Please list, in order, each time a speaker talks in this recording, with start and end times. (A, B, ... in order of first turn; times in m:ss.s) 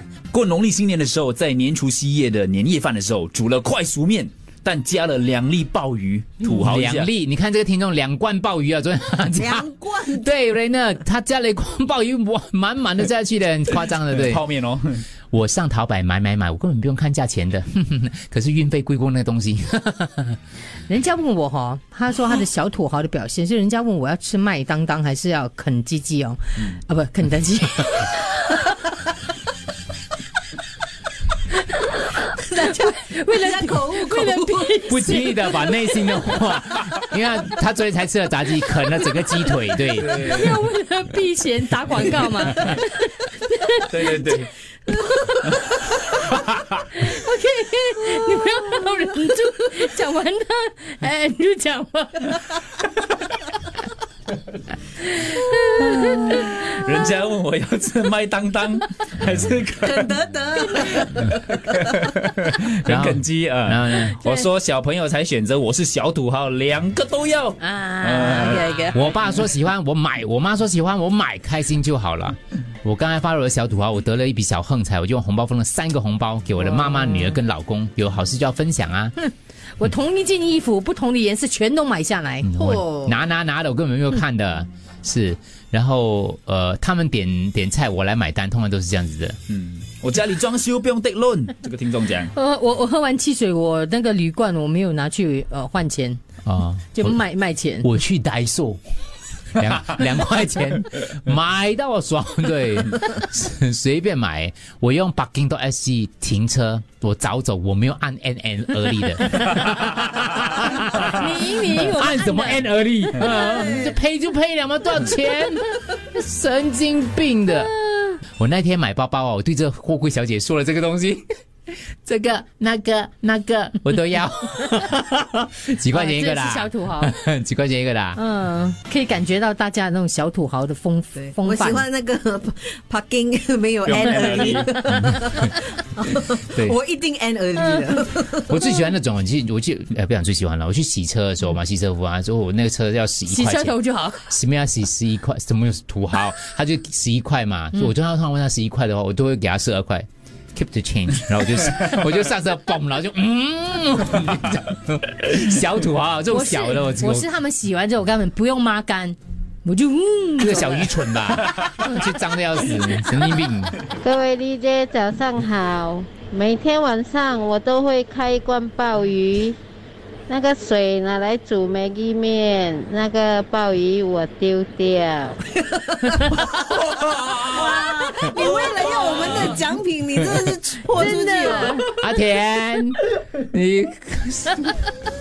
0:00.3-0:07.1 A
0:06.4-0:14.4 B
0:09.4-0:10.3 C
0:14.1-0:15.0 A
0:15.3-0:20.4 B
0:20.9-0:28.9 D
0:31.8-0:35.6 D
0:33.4-0:34.8 C
0:34.8-0:40.4 B
0:40.0-0:52.7 D
0:40.2-0:40.5 A
0:43.9-0:44.5 A
0:55.1-0:56.6 D
0:56.5-1:08.9 A
0:59.9-1:01.5 C
1:00.6-1:01.2 D
1:02.8-1:04.2 B
1:07.6-1:09.0 D
1:08.9-1:19.2 B
1:16.8-1:17.4 D
1:19.2-1:23.2 D
1:22.4-1:29.4 B
1:29.5-1:32.3 A
1:32.3-1:36.2 D
1:36.4-1:37.2 B
1:36.9-1:37.9 D
1:37.8-1:38.8 B
1:39.5-1:57.7 B
1:50.9-1:52.7 D
1:58.4-2:01.2 B
2:01.9-2:08.2 B
2:05.9-2:07.2 D
2:08.2-2:11.9 D
2:11.4-2:18.5 C
2:13.8-2:14.8 A
2:14.9-2:15.5 B
2:16.3-2:16.8 B
2:18.3-2:37.3 B
2:23.3-2:24.3 D
2:36.3-2:41.1 D
2:40.4-2:43.8 B
2:44.0-2:49.6 E
2:50.3-2:55.4 E
2:55.6-3:01.8 C
2:56.8-2:59.6 A
3:00.9-3:01.9 D
3:01.7-3:04.8 B